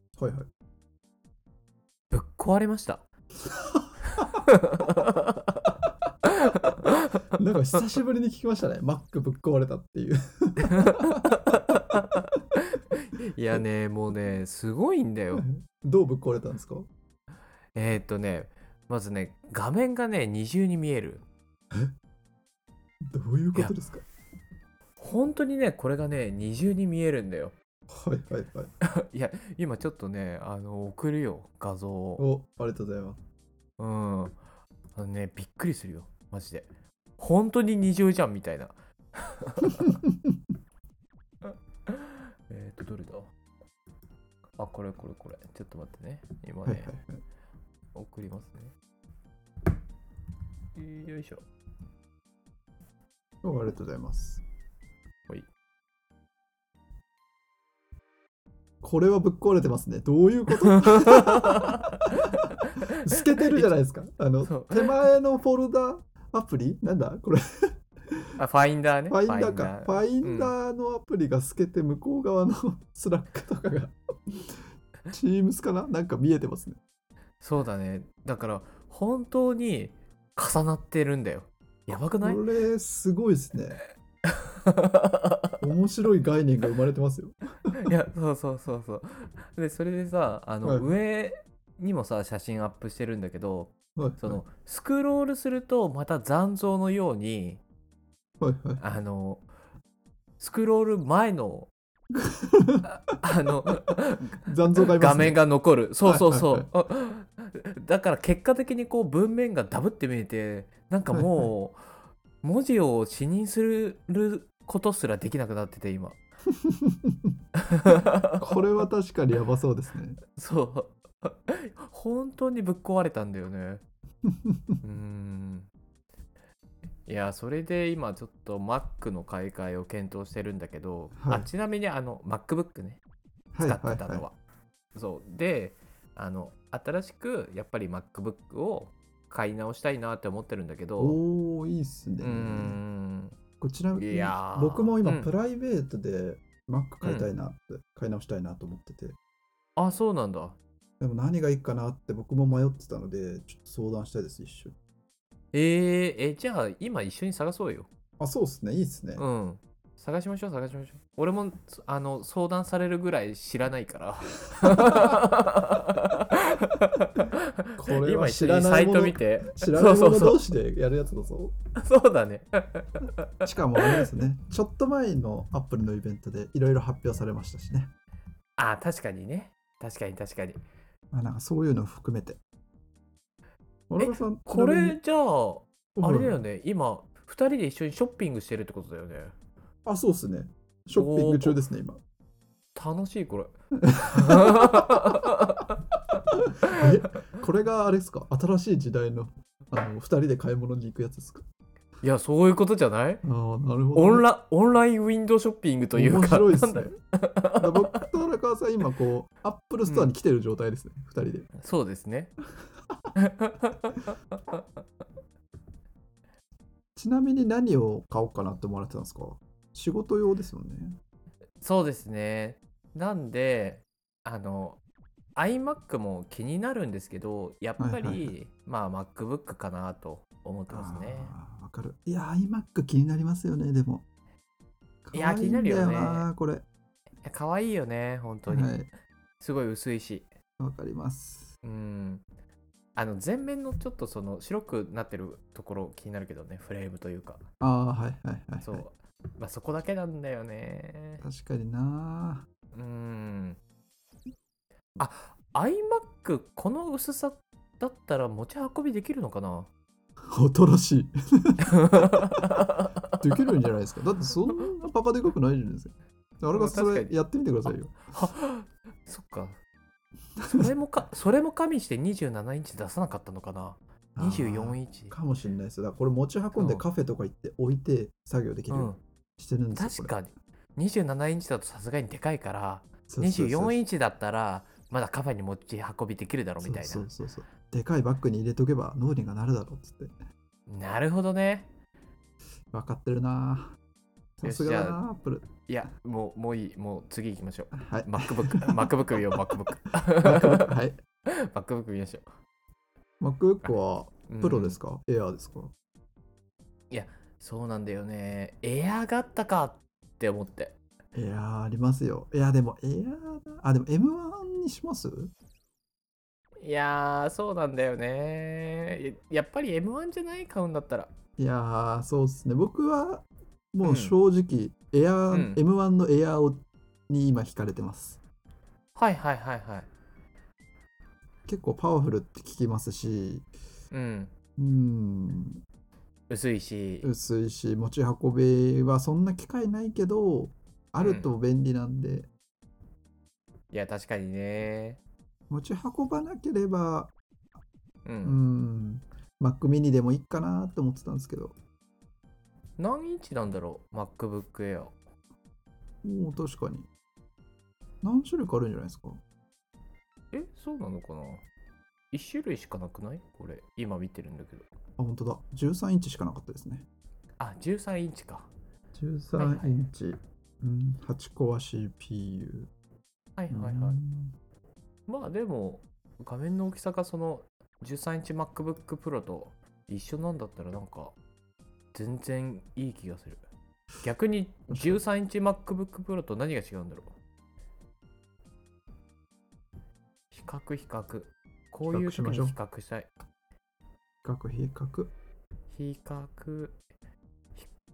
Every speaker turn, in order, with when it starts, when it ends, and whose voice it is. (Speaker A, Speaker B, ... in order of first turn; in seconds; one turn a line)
Speaker A: 0.2-0.5
Speaker B: 2.1-3.0
Speaker A: 3.4-4.2
Speaker B: 4.2-5.7
Speaker B: 6.3-7.3
Speaker A: 7.3-11.3
Speaker B: 10.7-15.4
Speaker A: 15.3-16.9
Speaker B: 17.7-21.2
Speaker A: 23.1-24.0
Speaker B: 25.0-27.5
Speaker A: 27.9-28.7
Speaker B: 28.8-32.2
Speaker A: 32.2-33.2
Speaker B: 33.8-34.4
Speaker B: 35.0-40.0
Speaker A: 39.8-40.2
Speaker B: 41.4-43.3
Speaker B: 44.6-46.9
Speaker A: 46.6-47.2
Speaker B: 47.9-48.7
Speaker B: 50.7-51.4
Speaker A: 53.4-54.4
Speaker A: 58.8-61.8
Speaker B: 60.9-62.8
Speaker A: 63.0-68.3
Speaker B: 63.3-63.7
Speaker B: 64.4-65.1
Speaker B: 68.4-70.5
Speaker A: 69.1-76.8
Speaker B: 77.4-82.4
Speaker A: 82.2-83.8
Speaker B: 84.3-85.6
Speaker A: 85.6-87.8
Speaker B: 87.8-97.6
Speaker A: 94.0-94.4
Speaker A: 98.4-98.8
Speaker B: 98.8-99.5
Speaker B: 100.4-101.7
Speaker A: 102.1-102.8
Speaker B: 103.0-111.8
Speaker A: 104.4-105.4
Speaker A: 106.0-106.7
Speaker A: 111.1-111.5
Speaker B: 112.4-116.2
Speaker A: 116.5-117.2
Speaker B: 117.6-118.7
Speaker A: 118.4-120.2
Speaker B: 120.3-123.8
Speaker A: 124.2-124.8
Speaker B: 124.8-125.7
Speaker B: 127.0-133.0
Speaker A: 131.2-131.5
Speaker A: 133.5-134.2
Speaker B: 133.6-134.4
Speaker B: 134.9-141.2
Speaker A: 141.0-142.8
Speaker B: 142.2-143.3
Speaker A: 143.6-149.2
Speaker B: 144.0-145.3
Speaker B: 147.0-147.3
Speaker B: 149.8-150.6
Speaker A: 151.0-154.8
Speaker B: 155.5-157.9
Speaker A: 158.2-159.2
Speaker B: 159.2-170.4
Speaker A: 164.7-165.1
Speaker A: 167.8-171.5
Speaker B: 171.8-174.1
Speaker A: 173.4-177.9
Speaker B: 178.6-180.6
Speaker A: 181.1-182.4
Speaker A: 183.9-185.0
Speaker B: 184.0-189.3
Speaker A: 185.9-186.4
Speaker A: 189.8-192.0
Speaker B: 190.9-191.6
Speaker B: 192.7-193.5
Speaker A: 193.8-195.3
Speaker B: 194.1-195.8
Speaker A: 196.6-201.5
Speaker B: 202.0-203.2
Speaker A: 203.2-204.2
Speaker B: 203.9-208.0
Speaker A: 205.9-206.9
Speaker A: 207.6-211.5
Speaker B: 209.8-210.1
Speaker B: 211.6-212.3
Speaker B: 213.2-214.6
Speaker A: 216.9-221.0
Speaker B: 221.6-224.8
Speaker B: 225.3-231.3
Speaker A: 227.8-228.3
Speaker A: 230.7-234.0
Speaker A: 235.0-236.6
Speaker B: 235.1-236.3
Speaker B: 237.2-238.8
Speaker A: 238.5-238.9
Speaker B: 239.4-240.3
Speaker A: 240.6-241.6
Speaker B: 241.6-242.2
Speaker B: 242.9-247.4
Speaker A: 247.6-248.8
Speaker B: 248.6-251.2
Speaker A: 251.2-252.4
Speaker B: 252.7-253.6
Speaker B: 255.0-259.7
Speaker A: 260.3-262.2
Speaker B: 261.8-263.2
Speaker A: 263.1-268.1
Speaker B: 266.5-269.6
Speaker A: 270.4-270.7
Speaker B: 270.4-275.1
Speaker A: 274.1-280.1
Speaker B: 276.5-276.8
Speaker B: 278.7-279.0
Speaker B: 279.7-287.1
Speaker A: 283.1-283.8
Speaker A: 286.6-290.1
Speaker B: 290.7-291.7
Speaker A: 292.7-293.8
Speaker A: 294.4-295.7
Speaker B: 294.4-295.0
Speaker B: 295.6-300.7
Speaker A: 297.8-298.9
Speaker A: 300.2-301.0
Speaker B: 301.3-302.3
Speaker A: 303.2-305.7
Speaker B: 303.6-304.8
Speaker B: 306.9-310.8
Speaker A: 311.1-315.3
Speaker B: 316.6-321.1
Speaker A: 321.4-328.2
Speaker B: 323.8-324.1
Speaker B: 325.3-325.6
Speaker B: 328.9-329.9
Speaker A: 331.4-333.4
Speaker B: 333.9-334.3
Speaker A: 334.6-335.6
Speaker B: 336.3-337.1
Speaker A: 337.0-342.3
Speaker B: 341.0-341.4
Speaker B: 343.7-345.0
Speaker A: 345.5-347.1
Speaker B: 348.0-348.4
Speaker A: 348.2-351.5
Speaker B: 352.8-354.9
Speaker A: 356.0-356.9
Speaker A: 358.0-359.2
Speaker B: 360.3-361.4
Speaker B: 362.1-364.7
Speaker A: 365.0-366.9
Speaker B: 367.4-368.5
Speaker A: 368.9-372.7
Speaker B: 369.4-369.9
Speaker B: 373.4-374.0
Speaker A: 373.5-374.3
Speaker B: 375.1-381.1
Speaker B: 381.9-383.4
Speaker B: 384.0-387.1
Speaker A: 384.7-385.0
Speaker B: 390.3-393.1
Speaker A: 391.9-392.6
Speaker A: 394.2-395.1
Speaker B: 395.7-396.8